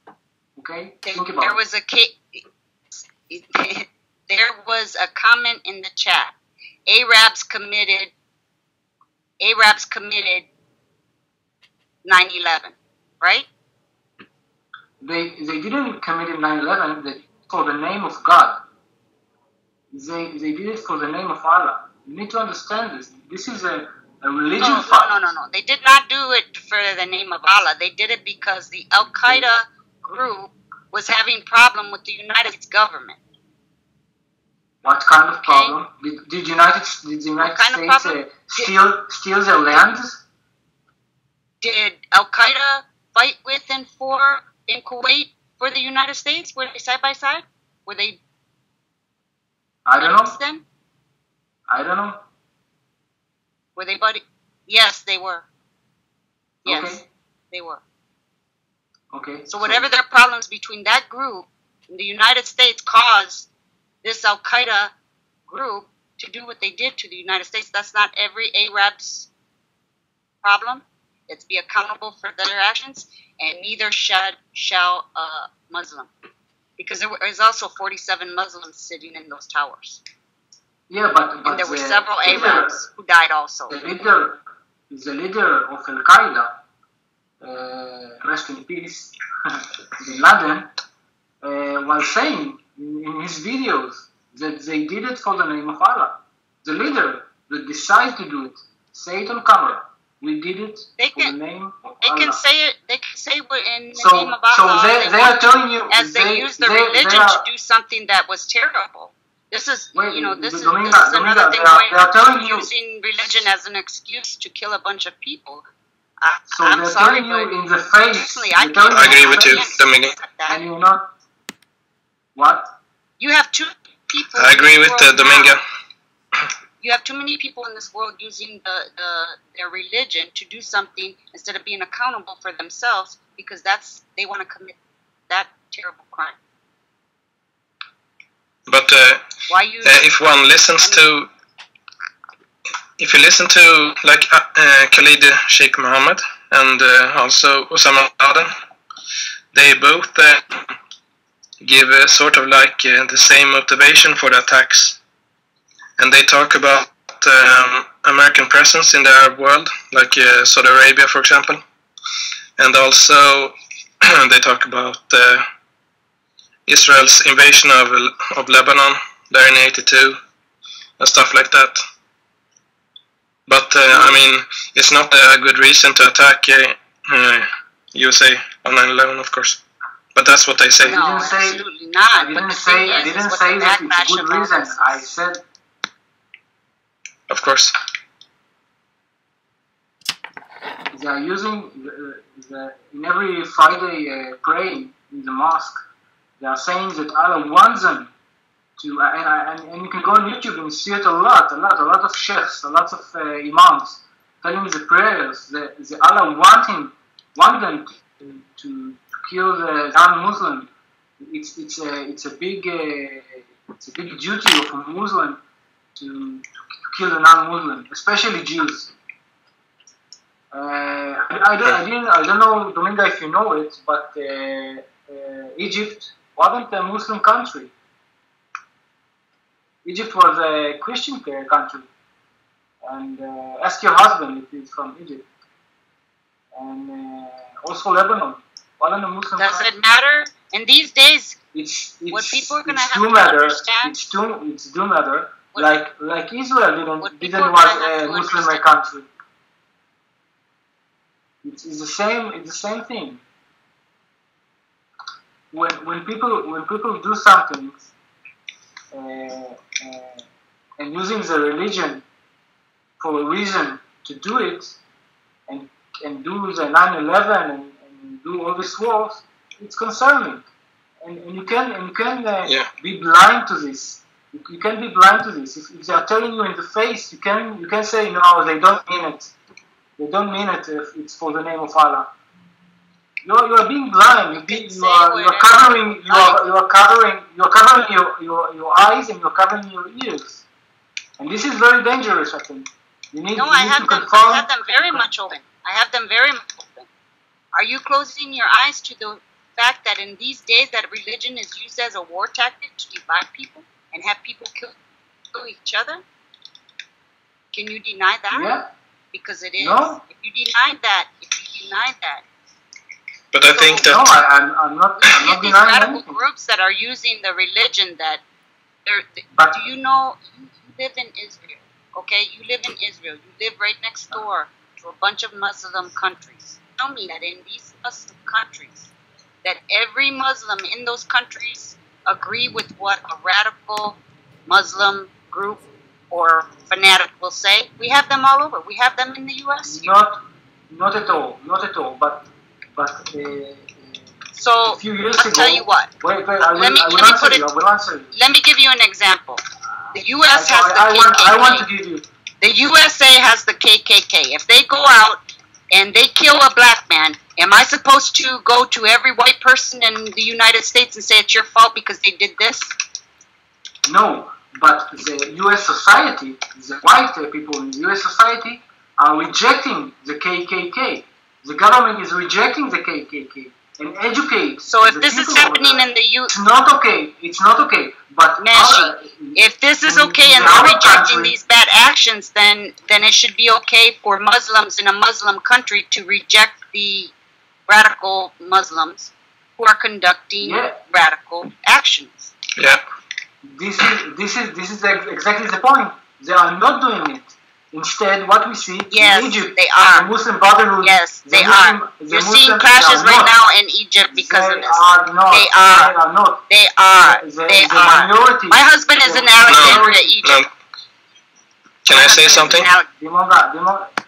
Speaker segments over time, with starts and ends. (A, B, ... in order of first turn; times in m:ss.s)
0:00.6-0:01.6 A
0:01.0-0:02.4 B
0:02.9-0:06.3 B
0:06.9-0:08.1 B
0:09.4-0:10.5 B
0:12.0-0:13.5 B
0:15.0-0:18.6 A
0:19.9-0:25.3 A
0:24.6-0:33.2 B
0:34.8-0:40.2 A
0:35.4-0:35.8 B
0:37.4-0:38.7 B
0:41.6-0:48.2 B
0:49.9-0:50.4 A
0:50.0-0:50.6 B
0:51.7-0:52.2 A
0:53.8-0:55.4 B
0:56.6-0:57.8 B
0:56.7-0:57.0 A
0:59.1-0:59.9 A
0:59.5-1:03.5 B
1:04.0-1:04.9 B
1:05.5-1:09.3 B
1:10.4-1:16.1 B
1:16.8-1:20.0 B
1:20.9-1:22.8 A
1:21.4-1:23.8 B
1:23.7-1:24.4 A
1:24.9-1:26.6 A
1:27.4-1:30.7 A
1:31.4-1:42.4 A
1:41.0-1:41.3 B
1:42.0-1:55.7 B
1:43.9-1:47.5 A
1:49.9-1:52.7 A
1:56.2-2:00.6 B
1:56.5-1:59.8 A
1:58.9-2:00.2 C
2:00.5-2:01.1 A
2:02.3-2:02.7 A
2:03.2-2:05.6 B
2:04.3-2:05.6 C
2:06.8-2:14.8 B
2:15.3-2:16.4 B
2:18.7-2:19.2 C
2:19.5-2:20.1 B
2:19.8-2:21.3 C
2:23.0-2:28.5 C
2:29.5-2:30.7 C
2:31.6-2:35.0 C
2:36.0-2:41.6 C
2:42.6-2:45.5 C
2:46.7-2:50.2 C
2:51.0-2:51.8 C
2:53.5-2:59.6 C
2:53.9-2:54.2 A
3:00.1-3:01.0 C
3:00.8-3:01.6 A
3:00.8-3:05.1 B
3:02.1-3:05.4 A
3:07.3-3:07.7 C
3:10.9-3:15.8 A
3:16.4-3:18.1 A
3:18.8-3:35.4 A
3:36.0-3:38.9 A
3:40.5-3:47.7 A
3:49.8-3:51.9 A
3:52.8-3:55.3 A
3:56.5-3:59.7 A
3:59.4-4:01.4 B
4:01.5-4:09.1 A
4:02.1-4:04.1 B
4:07.0-4:08.6 B
4:11.4-4:13.2 A
4:15.5-4:17.9 A
4:18.9-4:20.3 A
4:20.8-4:22.0 A
4:23.0-4:24.8 A
4:25.5-4:30.5 A
4:31.0-4:39.3 A
4:32.4-4:32.7 C
4:40.0-4:42.1 A
4:43.2-4:50.4 A
4:44.2-4:46.6 B
4:51.2-4:55.0 A
4:53.4-4:56.9 B
4:57.5-5:04.8 B
5:05.3-5:06.0 B
5:07.5-5:08.6 B
5:08.3-5:08.7 A
5:09.1-5:12.2 B
5:09.6-5:10.0 A
5:13.3-5:14.0 C
5:13.5-5:14.2 B
5:13.7-5:16.2 A
5:15.0-5:18.2 B
5:18.9-5:28.9 B
5:19.3-5:19.6 A
5:29.4-5:39.9 B
5:39.6-5:48.1 A
5:44.4-5:45.9 B
5:46.4-5:47.5 B
5:48.1-5:51.7 B
5:50.3-5:52.1 A
5:52.4-5:55.2 B
5:55.7-6:02.7 B
6:03.9-6:21.4 A
6:14.7-6:16.4 B
6:18.4-6:27.1 B
6:27.7-6:32.3 B
6:30.4-6:30.8 A
6:32.6-6:32.8 C
6:33.4-6:43.4 A
6:38.9-6:40.1 B
6:40.8-6:46.0 B
6:44.1-6:46.5 A
6:46.5-6:50.5 B
6:47.0-6:50.1 A
6:49.5-6:50.5 C
6:51.8-6:52.7 C
6:51.9-6:52.9 B
6:52.9-6:53.9 A